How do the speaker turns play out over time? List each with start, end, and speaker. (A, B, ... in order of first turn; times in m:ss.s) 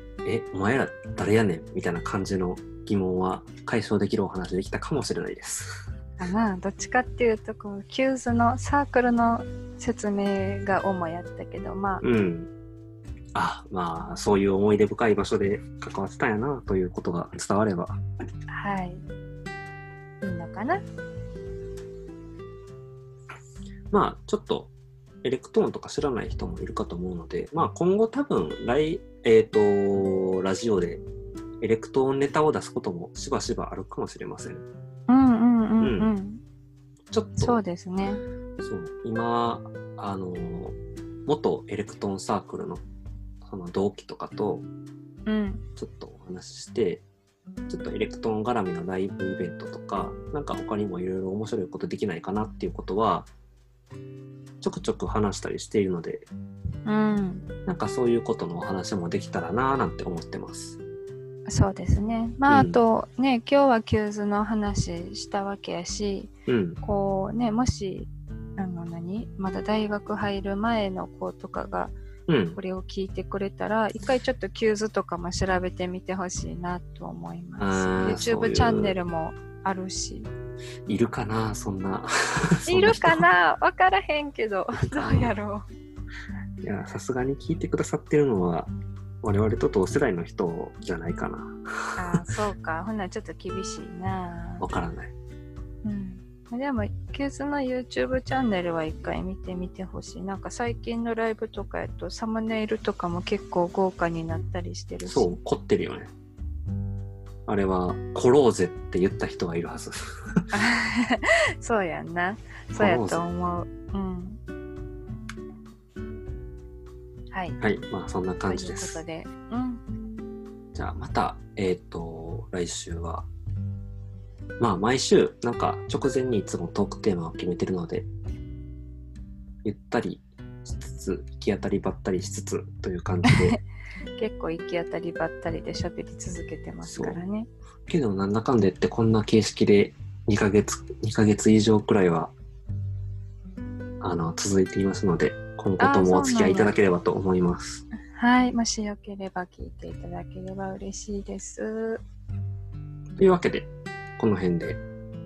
0:00.2-0:05.9 A
0:06.2-0:12.0 B
0:12.0-0:12.5 A
0:13.3-0:18.0 A
0:18.5-0:19.0 B
0:20.2-0:20.8 B
0:23.9-0:24.7 A
0:25.2-0:31.0 A
0:31.6-0:34.7 A
0:35.1-0:36.4 B
0:35.8-0:36.1 A
0:37.1-0:37.6 A
0:37.4-0:38.2 B
0:38.6-0:40.8 A
0:41.3-0:42.8 A
0:43.4-0:44.6 A
0:45.3-0:45.6 B
0:45.8-0:47.0 A
0:47.7-0:53.3 A
0:54.6-0:56.3 A
0:56.9-0:57.5 B
0:57.7-1:00.8 A
1:01.5-1:12.0 B
1:02.5-1:02.8 A
1:06.5-1:06.8 A
1:12.3-1:12.6 A
1:12.6-1:20.3 B
1:17.6-1:19.0 A
1:20.9-1:23.3 A
1:22.7-1:25.7 B
1:24.8-1:25.3 A
1:26.6-1:28.7 A
1:29.2-1:32.2 A
1:32.0-1:34.7 B
1:34.6-1:35.1 A
1:35.8-1:45.4 B
1:45.1-1:46.1 A
1:47.5-1:50.4 A
1:50.5-1:54.4 B
1:52.8-1:53.2 A
1:57.3-1:57.6 B
1:57.6-1:59.0 A
1:58.5-1:59.8 B
2:00.7-2:03.3 A
2:04.6-2:08.1 A
2:09.6-2:13.6 A
2:13.2-2:13.6 B
2:14.2-2:17.5 B
2:16.8-2:17.2 A
2:17.9-2:22.3 A
2:24.0-2:27.8 A
2:25.8-2:26.8 B
2:28.1-2:32.0 B
2:33.2-2:34.8 A